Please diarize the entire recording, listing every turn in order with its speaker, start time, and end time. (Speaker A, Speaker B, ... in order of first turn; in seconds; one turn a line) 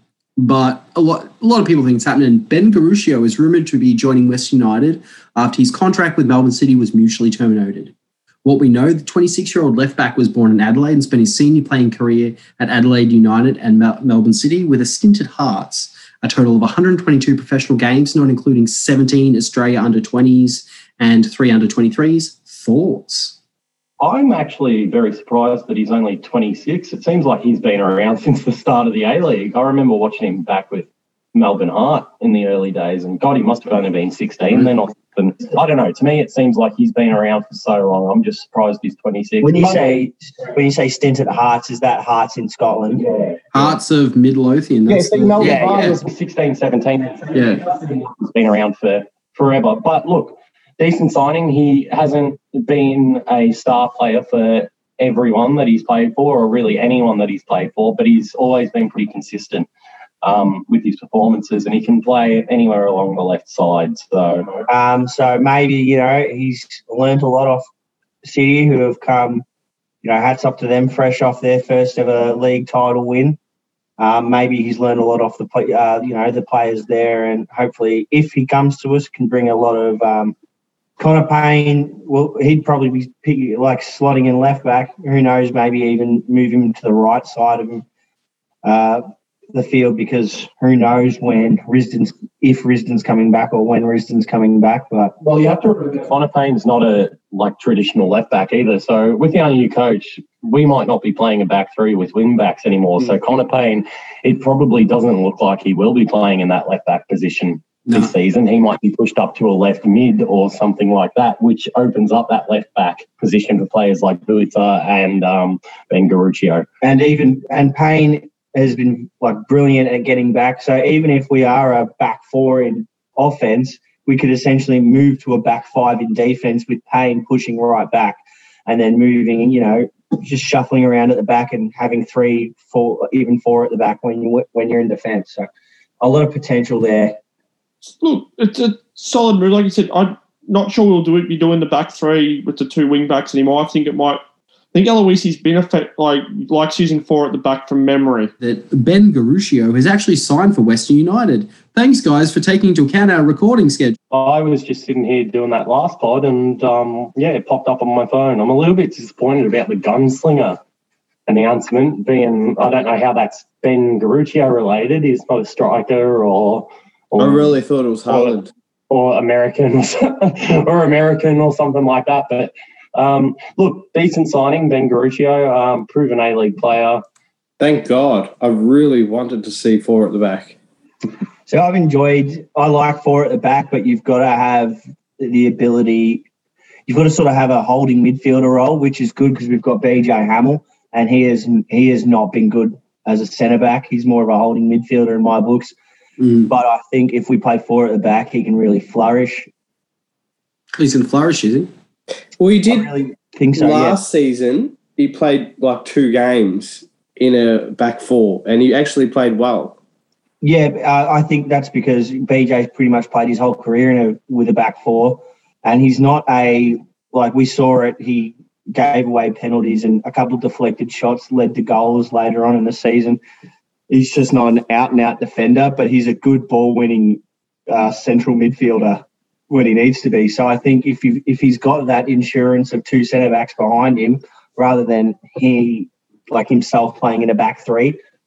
Speaker A: 0.4-7.9
Speaker A: 8.4-23.4
Speaker B: 24.0-40.0
Speaker C: 39.4-43.1
Speaker B: 43.1-43.4
Speaker A: 43.5-46.0
Speaker B: 44.9-59.7
Speaker C: 45.4-46.0
Speaker A: 47.3-47.6
Speaker B: 60.2-64.6
Speaker C: 64.7-67.7
Speaker C: 68.2-69.5
Speaker C: 70.0-73.4
Speaker C: 74.0-80.3
Speaker C: 81.0-87.8
Speaker C: 88.6-95.1
Speaker B: 95.2-116.7
Speaker A: 107.9-108.1
Speaker C: 116.8-135.5
Speaker C: 136.0-137.2
Speaker D: 138.0-144.2
Speaker D: 144.7-148.3
Speaker A: 148.4-154.0
Speaker B: 154.1-160.6
Speaker B: 161.3-167.6
Speaker E: 167.2-168.5
Speaker B: 168.1-168.4
Speaker B: 168.9-177.0
Speaker E: 177.6-180.6
Speaker C: 181.5-186.2
Speaker C: 186.9-195.7
Speaker A: 196.2-196.5
Speaker C: 196.5-199.5
Speaker A: 200.8-201.7
Speaker E: 202.4-202.9
Speaker C: 202.7-204.0
Speaker E: 203.6-209.8
Speaker C: 210.4-223.2
Speaker C: 223.9-238.0